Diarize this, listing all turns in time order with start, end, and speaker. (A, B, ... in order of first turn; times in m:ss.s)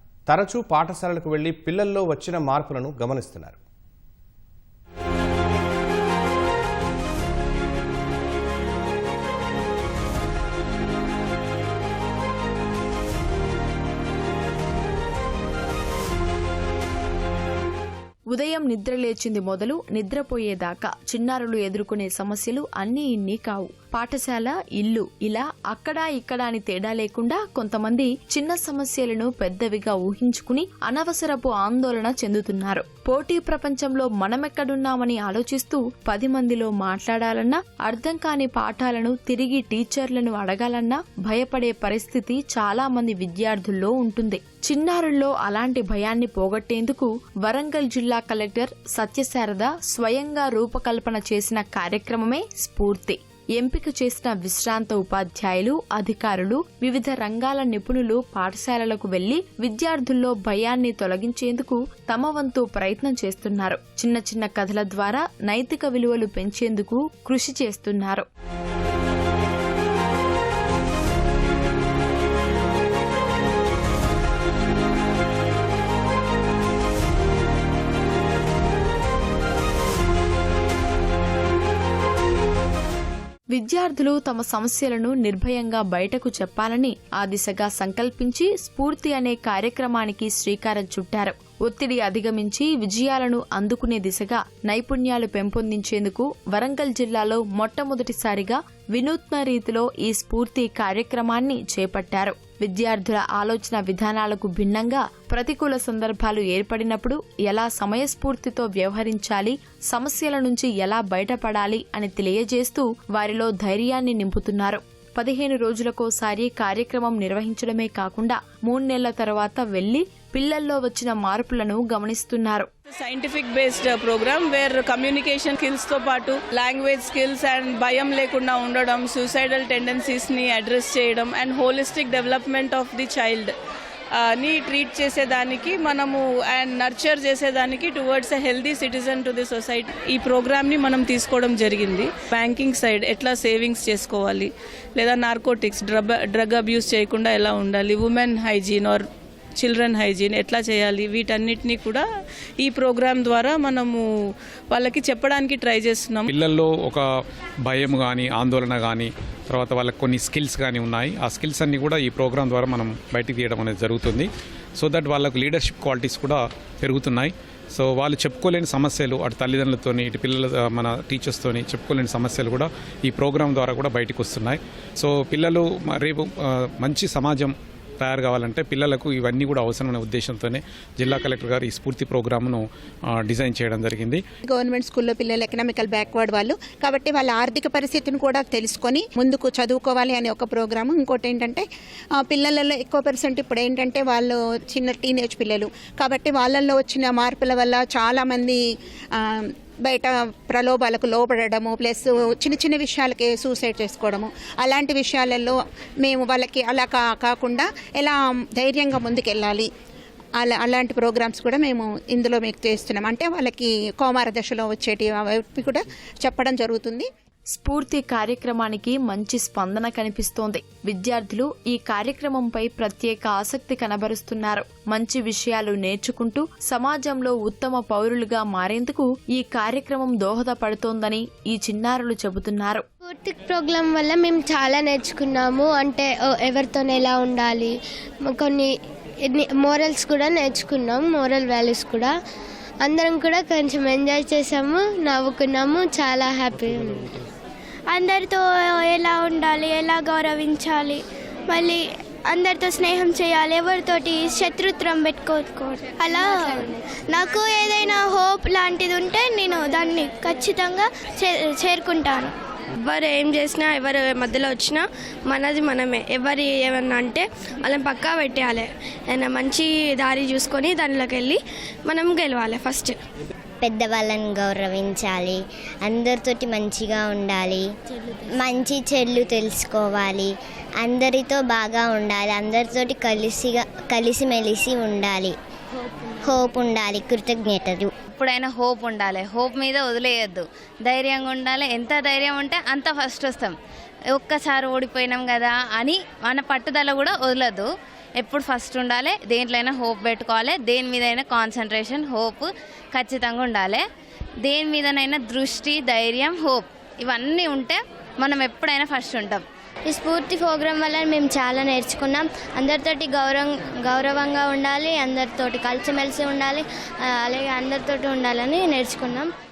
0:00.3-0:03.6 A
0:18.3-1:08.3 B
1:23.5-2:02.7 B
2:02.9-2:13.5 C
2:14.2-2:29.1 C
2:29.6-2:32.0 C
2:32.6-2:34.1 C
2:34.7-2:36.3 C
2:36.3-2:37.0 D
2:37.7-2:44.3 D
2:44.8-2:56.3 D
2:56.8-3:02.6 D
3:03.2-3:04.2 D
3:04.5-3:11.6 E
3:12.2-3:18.6 E
3:19.9-3:25.6 E
3:26.1-3:29.6 E
3:30.4-3:37.0 E
3:37.5-3:52.8 B
3:53.0-3:57.7 F
3:58.3-3:58.7 F
3:59.3-4:02.1 F
4:02.8-4:07.1 F
4:07.9-4:22.3 G
4:22.8-4:33.0 H
4:33.6-4:37.7 I
4:38.4-4:40.3 I
4:40.8-4:45.4 I
4:46.2-4:47.9 I
4:48.1-4:53.5 J
4:54.2-4:57.7 J
4:58.2-5:03.8 J
5:04.5-5:09.4 J
5:09.9-5:16.6 K
5:17.2-5:19.3 K